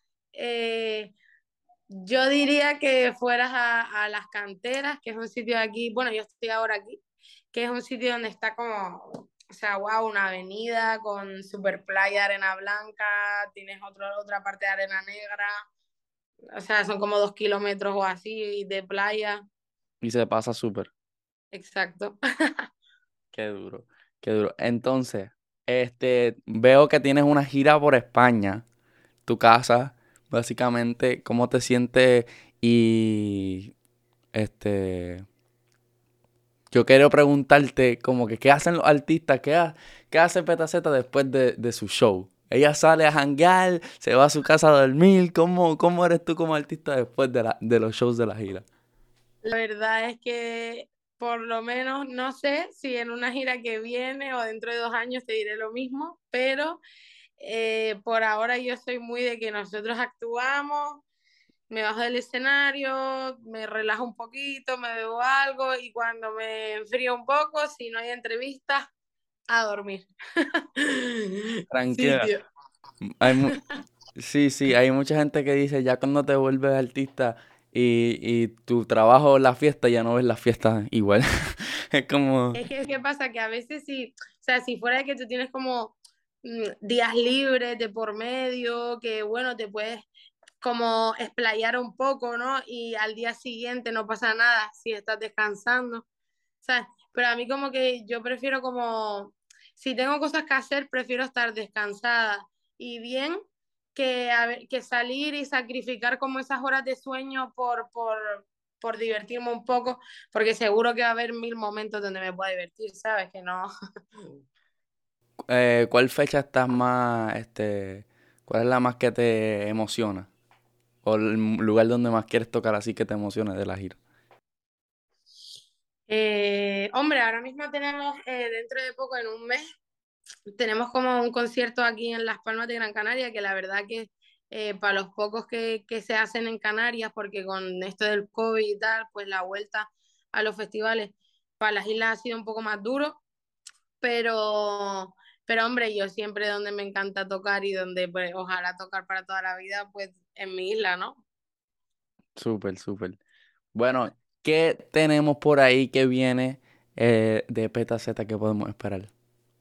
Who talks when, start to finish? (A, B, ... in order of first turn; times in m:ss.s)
0:00.3-0:01.1 A
0:02.0-0:07.0 A
0:07.5-0:15.5 A
0:16.5-0:19.4 A
0:20.0-0:20.9 B
0:21.5-0:22.2 A
0:23.3-0:28.6 B
0:29.2-0:33.7 B
0:34.3-0:35.2 B
0:36.7-0:48.6 B
0:49.4-0:56.8 A
0:57.4-1:01.0 A
1:01.7-1:08.8 A
1:09.5-1:12.4 A
1:11.7-1:12.3 B
1:13.0-1:13.5 B
1:13.3-1:13.6 A
1:14.2-1:22.6 B
1:22.5-1:30.0 A
1:30.6-1:36.0 A
1:36.6-1:43.4 A
1:43.9-1:53.7 A
1:55.5-2:00.3 B
2:01.0-2:04.0 B
2:06.1-2:09.6 A
2:10.6-2:23.2 A
2:24.0-2:31.2 A
2:32.4-2:33.2 B
2:33.7-2:39.1 B